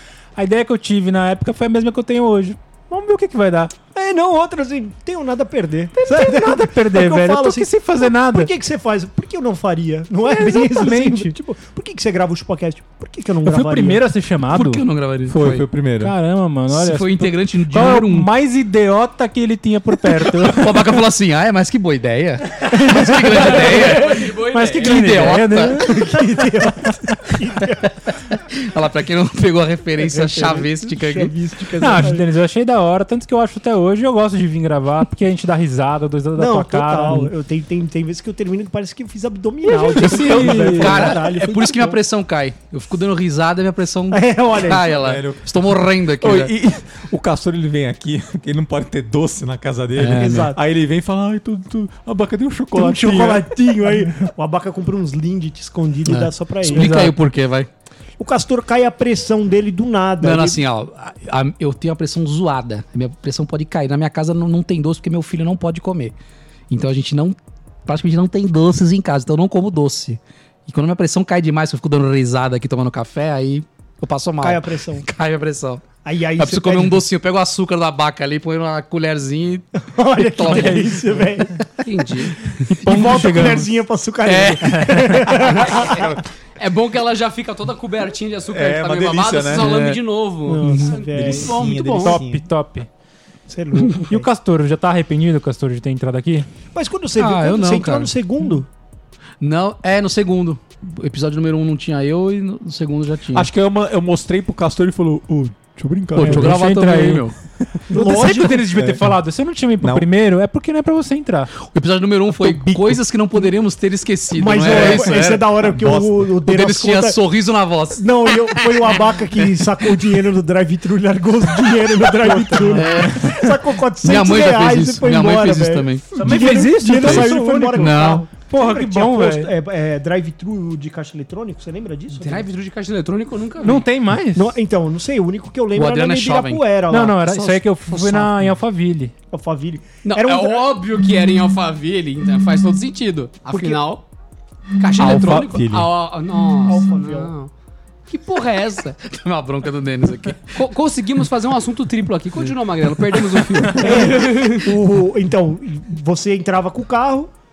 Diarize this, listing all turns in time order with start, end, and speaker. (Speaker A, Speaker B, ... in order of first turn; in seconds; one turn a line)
Speaker A: 0.4-3.8
Speaker B: 3.9-14.0
Speaker A: 6.0-8.5
Speaker A: 10.2-11.3
Speaker A: 13.4-14.9
Speaker C: 14.5-15.7
Speaker D: 15.3-16.1
Speaker A: 16.0-21.0
Speaker C: 16.7-18.3
Speaker C: 20.3-25.9
Speaker A: 22.7-26.5
Speaker E: 23.3-25.2
Speaker B: 25.9-28.0
Speaker C: 28.5-31.3
Speaker B: 30.0-32.3
Speaker A: 31.8-37.3
Speaker B: 36.4-42.0
Speaker A: 39.6-41.2
Speaker C: 39.8-46.5
Speaker B: 44.1-45.0
Speaker D: 44.9-53.5
Speaker C: 50.0-50.5
Speaker B: 50.1-50.6
Speaker B: 52.7-57.1
Speaker C: 56.1-57.7
Speaker A: 56.7-57.1
Speaker B: 58.2-60.6
Speaker C: 60.2-66.2
Speaker C: 66.7-79.6
Speaker B: 74.4-75.1
Speaker B: 76.0-77.0
Speaker B: 79.9-81.7
Speaker C: 80.2-81.0
Speaker A: 80.5-81.0
Speaker E: 81.8-82.5
Speaker A: 82.7-83.7
Speaker B: 82.7-86.1
Speaker C: 84.2-85.2
Speaker A: 84.7-85.3
Speaker E: 86.6-92.2
Speaker D: 88.5-89.9
Speaker C: 89.6-90.0
Speaker B: 90.5-91.6
Speaker D: 91.1-92.4
Speaker A: 91.9-92.9
Speaker B: 93.5-94.3
Speaker A: 93.9-96.5
Speaker B: 96.7-98.7
Speaker C: 97.2-98.1
Speaker C: 99.4-103.5
Speaker D: 103.3-106.6
Speaker C: 106.2-107.3
Speaker A: 106.2-107.3
Speaker A: 107.9-111.5
Speaker B: 107.9-108.7
Speaker D: 108.2-109.1
Speaker D: 109.8-110.1
Speaker C: 111.6-115.6
Speaker D: 112.3-113.0
Speaker B: 114.3-117.2
Speaker D: 114.6-116.3
Speaker C: 116.4-118.9
Speaker B: 118.0-132.5
Speaker A: 122.2-123.3
Speaker C: 122.8-123.4
Speaker C: 124.0-128.2
Speaker A: 126.1-129.5
Speaker E: 132.1-133.8
Speaker A: 133.6-134.6
Speaker B: 134.3-138.3
Speaker C: 135.8-136.6
Speaker A: 136.9-139.1
Speaker B: 139.3-140.7
Speaker E: 140.1-144.0
Speaker B: 143.5-143.8
Speaker E: 144.8-147.5
Speaker D: 144.9-145.9
Speaker B: 146.7-147.3
Speaker E: 148.1-149.0
Speaker C: 149.0-150.6
Speaker E: 150.5-154.7
Speaker B: 153.8-157.3